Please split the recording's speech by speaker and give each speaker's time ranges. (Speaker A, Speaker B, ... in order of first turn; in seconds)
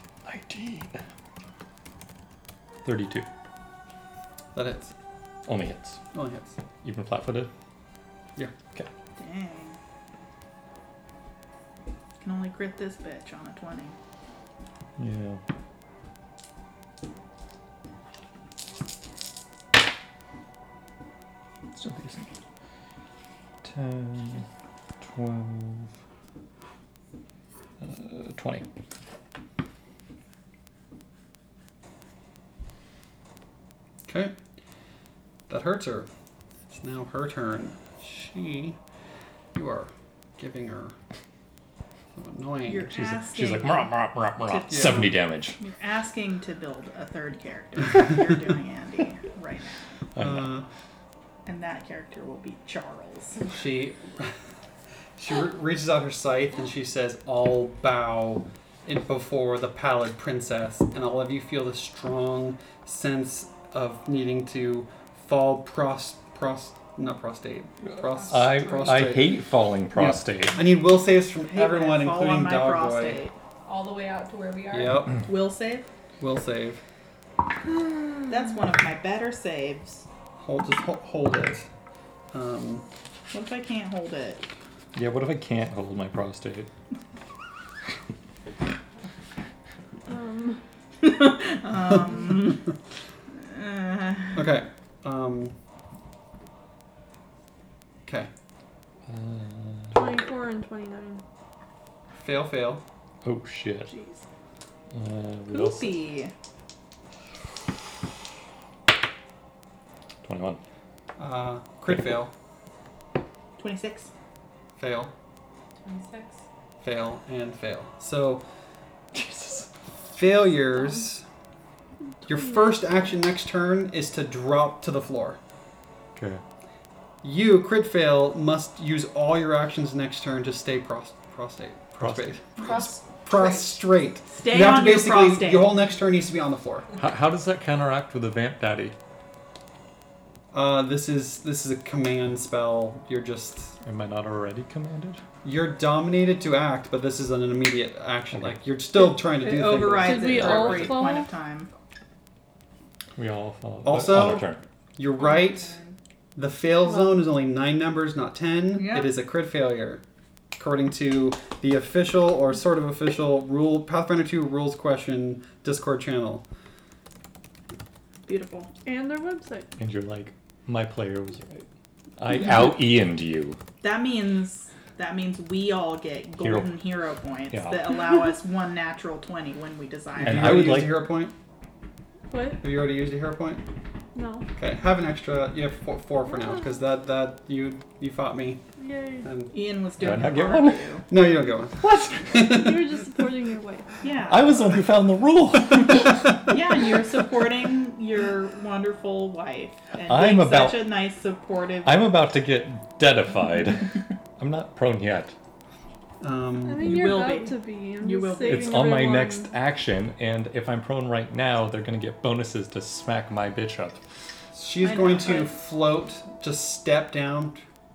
Speaker A: 0.2-1.0, 2.8-3.3, 5.5-6.0, 6.8-7.5, 15.0-15.4, 21.7-22.3, 23.6-24.5, 25.0-25.9, 27.8-28.7, 42.9-45.6, 50.1-50.5, 68.3-70.6, 85.0-86.7, 99.1-100.1, 103.2-103.9, 104.9-106.0, 110.2-110.6, 119.1-119.7, 126.2-126.4, 132.0-132.4, 137.0-139.0, 143.8-145.2, 148.3-148.7, 153.2-154.6, 169.8-171.6, 172.2-173.6, 176.4-176.8, 177.5-178.1, 180.2-181.0, 190.0-191.0, 191.8-192.2, 194.2-196.2, 200.1-200.9, 201.8-205.3, 208.4-214.0
Speaker B: 4.5-4.9, 6.1-6.6, 34.1-34.4, 35.5-36.1, 36.7-38.8, 39.5-41.0, 42.1-42.9, 44.7-45.1, 50.2-50.7, 53.5-54.4, 55.2-69.4, 69.9-73.2, 74.7-75.3, 76.2-76.8, 80.4-81.7, 82.3-82.9, 94.3-95.5, 98.0-98.3, 102.1-102.8, 111.2-112.3, 114.8-115.1, 116.8-118.4, 120.1-121.2, 122.3-125.4, 127.2-136.9, 140.5-143.8, 145.4-151.0, 153.8-155.7, 156.3-160.0, 160.6-166.4, 180.2-181.3, 182.6-183.6, 184.6-188.6, 189.2-189.5, 191.1-193.1, 206.2-207.1, 214.5-217.6
Speaker C: 9.2-9.8, 12.2-14.0, 42.7-49.9, 51.5-53.4, 71.4-73.3, 75.2-75.9, 78.3-80.1, 83.3-84.5, 91.0-92.7, 93.4-94.4, 103.9-104.2, 105.5-106.3, 113.6-114.1, 134.3-135.8, 148.9-151.7, 158.7-159.1, 168.3-168.7, 173.8-180.9, 189.5-191.1, 194.0-194.5, 196.4-202.1, 206.8-209.0, 214.8-215.6
Speaker D: 68.1-69.1, 73.7-75.1, 115.8-116.4, 132.6-133.8, 155.2-156.0
Speaker E: 90.1-90.6, 99.9-101.2, 122.3-122.8, 150.0-151.3, 168.8-169.7, 182.3-182.6, 184.1-184.5, 188.8-189.3, 192.3-194.0, 206.6-209.5